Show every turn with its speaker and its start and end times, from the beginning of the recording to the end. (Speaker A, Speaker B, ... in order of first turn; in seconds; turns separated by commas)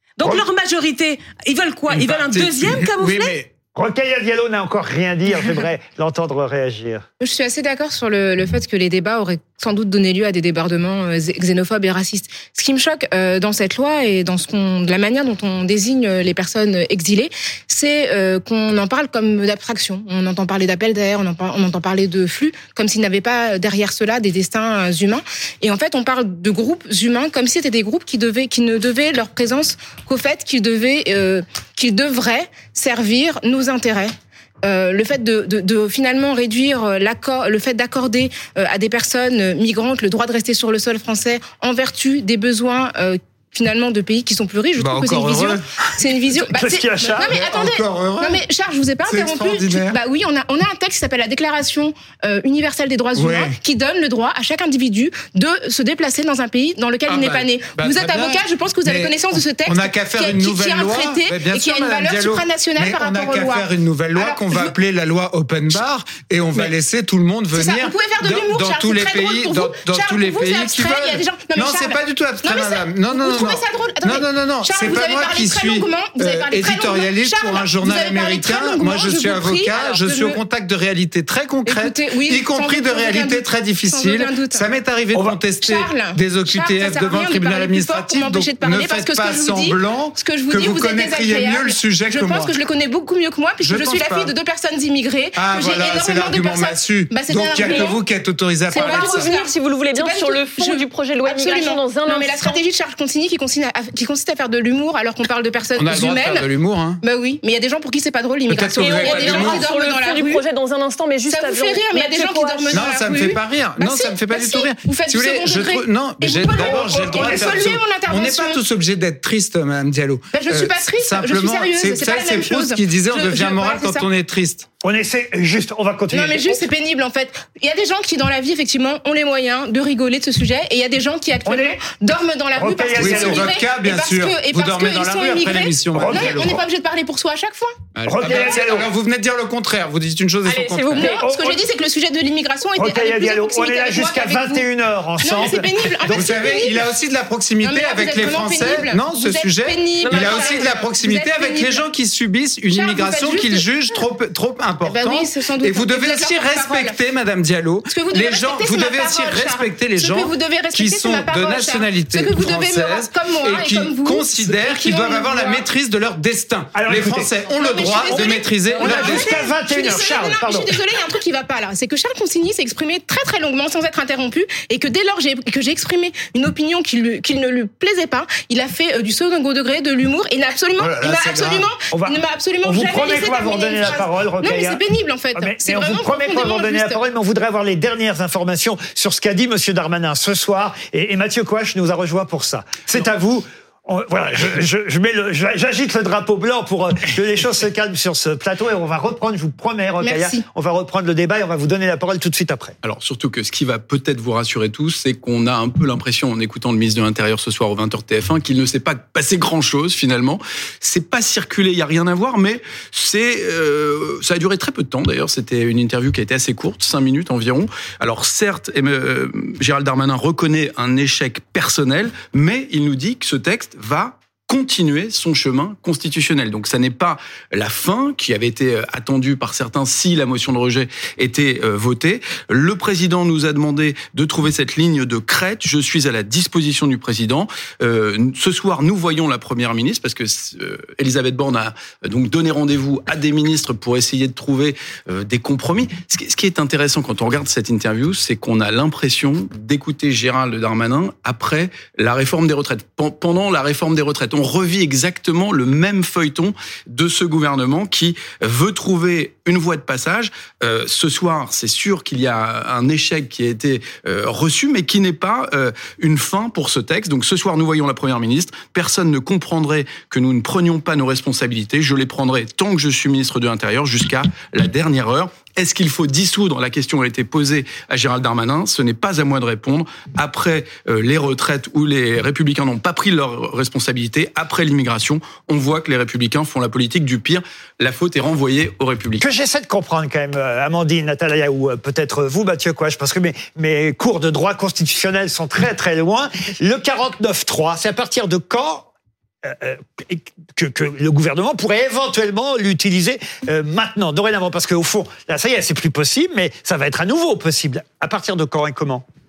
Speaker A: 0.2-3.4, Speaker B: 1.9-3.5, Speaker C: 3.7-7.0, Speaker D: 7.2-64.7, Speaker B: 44.8-46.0, Speaker C: 46.5-47.4, Speaker B: 47.2-48.4, Speaker B: 49.0-50.0, Speaker B: 53.1-53.6, Speaker B: 57.0-92.5, Speaker D: 67.5-80.4, Speaker D: 81.6-98.0, Speaker B: 93.6-94.3, Speaker B: 95.3-99.3, Speaker E: 97.6-97.9, Speaker D: 98.7-106.5, Speaker E: 98.7-102.6, Speaker B: 105.8-107.0, Speaker D: 107.0-110.4, Speaker B: 108.5-109.7, Speaker E: 108.7-112.9, Speaker D: 111.3-118.6, Speaker B: 112.7-124.7, Speaker C: 116.5-117.6, Speaker D: 120.3-124.1, Speaker C: 124.8-126.7, Speaker D: 126.1-138.4, Speaker C: 131.4-131.8, Speaker C: 132.6-133.5, Speaker B: 132.9-136.6, Speaker C: 135.9-136.4, Speaker B: 137.9-141.2, Speaker C: 138.1-138.9, Speaker E: 140.4-141.3, Speaker D: 140.9-144.7, Speaker C: 141.0-141.6, Speaker C: 142.8-146.3, Speaker D: 145.2-146.8, Speaker B: 146.1-169.5, Speaker D: 147.6-151.9, Speaker E: 150.0-150.7, Speaker D: 152.7-154.0, Speaker D: 154.8-157.0, Speaker D: 157.9-165.7, Speaker C: 166.7-167.3, Speaker D: 167.5-187.0, Speaker C: 168.1-170.8, Speaker B: 180.8-181.7, Speaker C: 181.9-184.8, Speaker C: 185.3-202.8, Speaker D: 200.0-200.4, Speaker F: 202.8-289.3, Speaker C: 289.2-298.9, Speaker C: 299.4-309.0